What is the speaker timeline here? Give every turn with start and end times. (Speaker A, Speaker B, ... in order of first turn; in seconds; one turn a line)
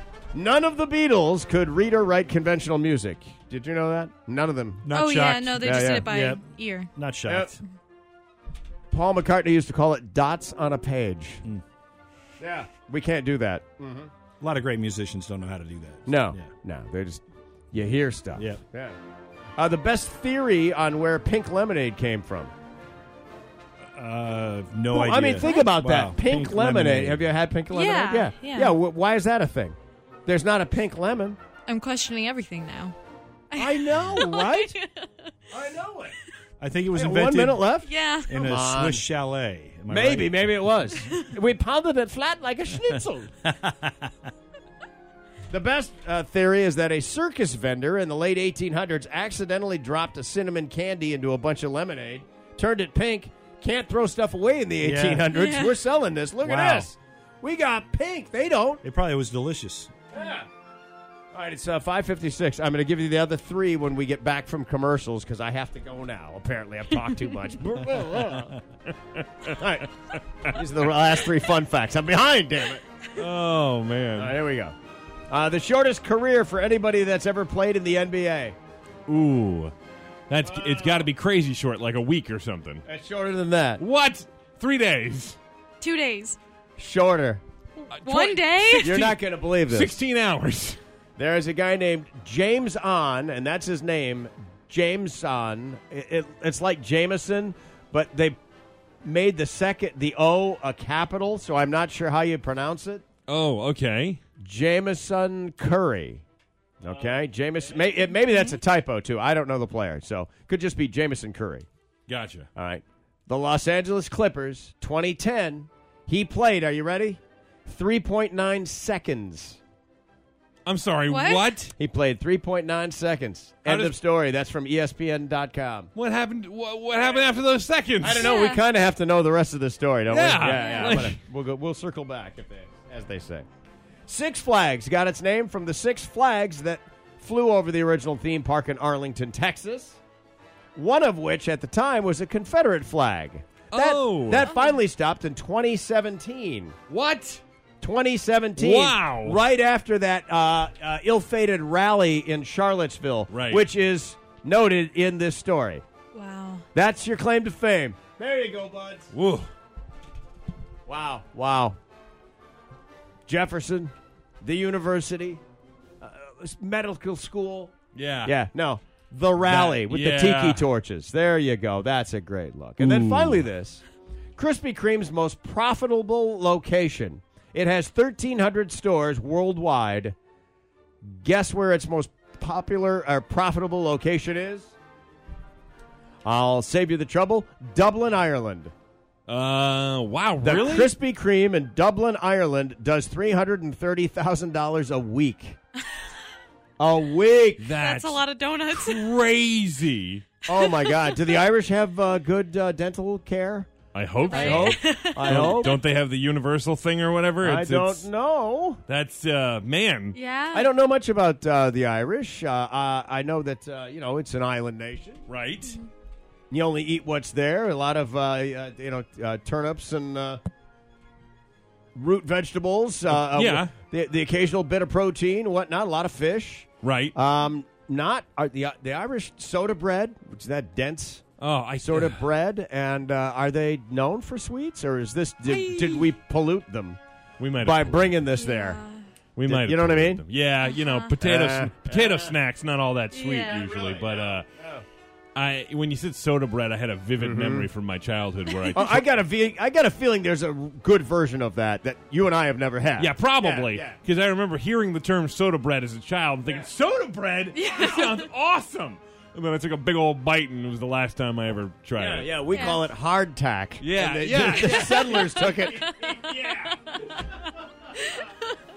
Speaker A: 0.3-4.9
Speaker B: 4.8-7.6
Speaker C: 4.9-6.9
Speaker A: 5.6-6.1
Speaker A: 7.3-7.5
Speaker A: 8.9-11.4
Speaker A: 12.4-14.1
Speaker B: 14.4-16.5
Speaker A: 16.1-19.0
Speaker B: 18.4-18.6
Speaker A: 19.6-22.5
Speaker B: 23.9-27.3
Speaker A: 24.9-31.4
Speaker C: 27.7-28.8
Speaker C: 31.7-33.0
Speaker C: 33.5-35.1
Speaker A: 33.6-34.7
Speaker A: 35.5-36.1
Speaker B: 36.6-37.7
Speaker A: 36.9-39.1
Speaker C: 37.9-38.4
Speaker B: 38.3-40.9
Speaker A: 39.9-43.3
Speaker B: 43.5-44.1
Speaker A: 45.5-58.8
Speaker B: 54.8-55.3
Speaker C: 55.3-55.8
Speaker B: 56.4-56.9
Speaker B: 58.8-59.9
Speaker A: 60.1-60.5
Speaker A: 61.3-68.6
Speaker A: 69.4-69.9
Speaker A: 70.4-72.8
Speaker D: 73.2-74.3
Speaker A: 74.2-74.8
Speaker A: 75.3-78.6
Speaker D: 79.1-79.7
Speaker D: 80.3-82.8
Speaker A: 80.4-81.1
Speaker A: 82.8-83.8
Speaker D: 83.8-85.4
Speaker C: 85.8-86.4
Speaker A: 86.8-87.4
Speaker C: 87.8-89.0
Speaker D: 87.9-90.8
Speaker A: 88.8-89.9
Speaker A: 91.2-98.4
Speaker A: 99.0-103.0
Speaker D: 103.3-104.2
Speaker A: 104.4-106.2
Speaker A: 106.8-111.7
Speaker D: 112.1-112.5
Speaker A: 112.6-119.6
Speaker D: 120.7-121.7
Speaker C: 121.1-121.6
Speaker A: 121.8-125.9
Speaker D: 123.7-124.0
Speaker D: 126.0-128.3
Speaker A: 127.0-127.2
Speaker A: 128.0-133.5
Speaker C: 128.2-128.6
Speaker D: 130.1-131.2
Speaker C: 130.5-131.0
Speaker A: 134.1-140.0
Speaker A: 140.8-146.8
Speaker D: 143.7-144.5
Speaker C: 144.5-144.8
Speaker D: 146.9-147.4
Speaker A: 147.8-155.8
Speaker D: 148.6-149.4
Speaker D: 153.3-153.7
Speaker C: 156.1-156.6
Speaker A: 156.7-159.1
Speaker D: 159.1-159.5
Speaker A: 160.9-161.8
Speaker A: 163.3-165.4
Speaker A: 166.0-173.8
Speaker D: 167.9-168.3
Speaker D: 169.4-170.7
Speaker D: 172.8-173.4
Speaker A: 174.4-180.2
Speaker A: 181.0-184.7
Speaker A: 186.2-188.7
Speaker D: 189.3-190.9
Speaker A: 190.4-195.6
Speaker A: 196.8-197.7
Speaker D: 197.6-200.3
Speaker C: 197.8-199.1
Speaker A: 200.5-203.7
Speaker C: 200.5-200.9
Speaker D: 203.9-208.1
Speaker C: 204.3-205.8
Speaker A: 204.3-205.8
Speaker A: 207.4-208.8
Speaker D: 208.9-210.2
Speaker C: 210.2-210.7
Speaker A: 210.5-215.2
Speaker D: 215.3-215.8
Speaker A: 216.5-220.4
Speaker A: 222.0-231.2
Speaker D: 223.1-223.7
Speaker D: 226.8-227.2
Speaker D: 231.4-232.2
Speaker A: 231.8-237.0
Speaker C: 235.5-235.9
Speaker D: 235.5-236.0
Speaker D: 237.4-238.2
Speaker A: 237.6-238.8
Speaker C: 238.4-239.0
Speaker D: 239.4-244.5
Speaker A: 239.5-240.2
Speaker C: 240.6-241.2
Speaker A: 241.2-242.4
Speaker C: 243.1-243.8
Speaker A: 243.5-244.8
Speaker D: 245.4-249.0
Speaker A: 247.2-247.7
Speaker A: 248.7-254.0
Speaker D: 253.0-262.4
Speaker C: 257.6-258.2
Speaker A: 262.0-267.4
Speaker C: 262.5-262.9
Speaker D: 263.8-266.8
Speaker C: 265.9-266.3